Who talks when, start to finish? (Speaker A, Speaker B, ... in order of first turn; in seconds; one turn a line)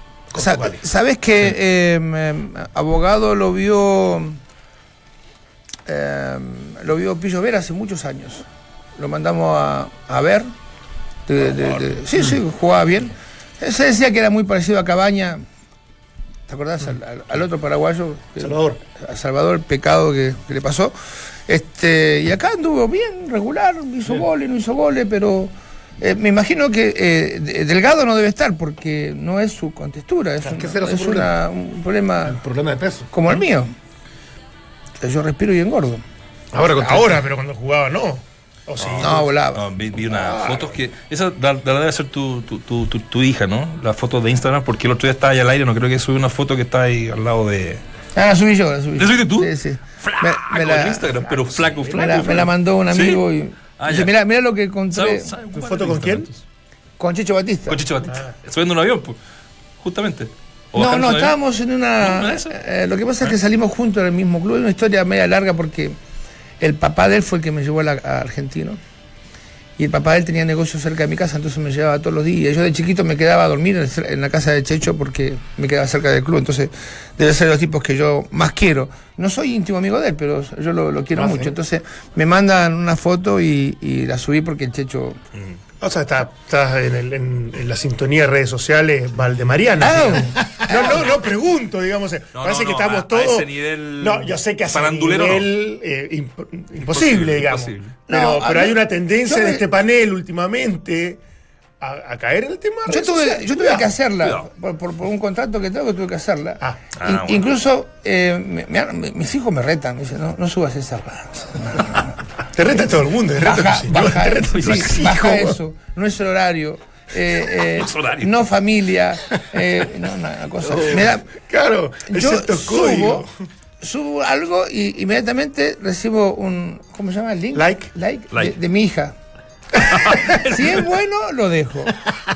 Speaker A: 0.3-0.8
Speaker B: 0.3-4.4
Speaker B: 5.9-10.5
Speaker B: 11.3-15.4
Speaker B: 16.5-20.9
Speaker C: 18.4-18.8
Speaker B: 21.5-32.4
Speaker A: 30.4-31.3
Speaker A: 32.2-33.1
Speaker B: 33.1-33.7
Speaker B: 35.0-36.0
Speaker A: 36.5-37.2
Speaker C: 36.7-39.2
Speaker D: 38.8-47.8
Speaker B: 39.0-40.2
Speaker B: 48.1-51.2
Speaker D: 49.0-53.2
Speaker C: 51.5-52.4
Speaker B: 51.9-55.3
Speaker D: 53.8-54.1
Speaker D: 54.9-56.4
Speaker C: 55.5-56.3
Speaker B: 57.0-57.8
Speaker D: 57.7-59.2
Speaker C: 58.1-58.3
Speaker D: 59.8-61.3
Speaker B: 60.7-66.0
Speaker D: 62.0-62.5
Speaker B: 66.6-68.8
Speaker B: 69.8-85.2
Speaker A: 81.1-81.5
Speaker C: 85.8-101.2
Speaker B: 89.8-91.1
Speaker D: 92.3-95.5
Speaker D: 96.8-98.0
Speaker B: 98.1-99.6
Speaker C: 101.8-103.9
Speaker B: 102.9-112.2
Speaker D: 104.2-104.5
Speaker D: 107.0-107.4
Speaker C: 112.5-115.5
Speaker B: 113.4-121.3
Speaker D: 114.5-115.1
Speaker D: 117.7-118.3
Speaker C: 120.8-123.3
Speaker B: 122.1-123.2
Speaker B: 123.8-129.2
Speaker C: 127.5-127.9
Speaker D: 129.9-130.8
Speaker B: 130.3-131.9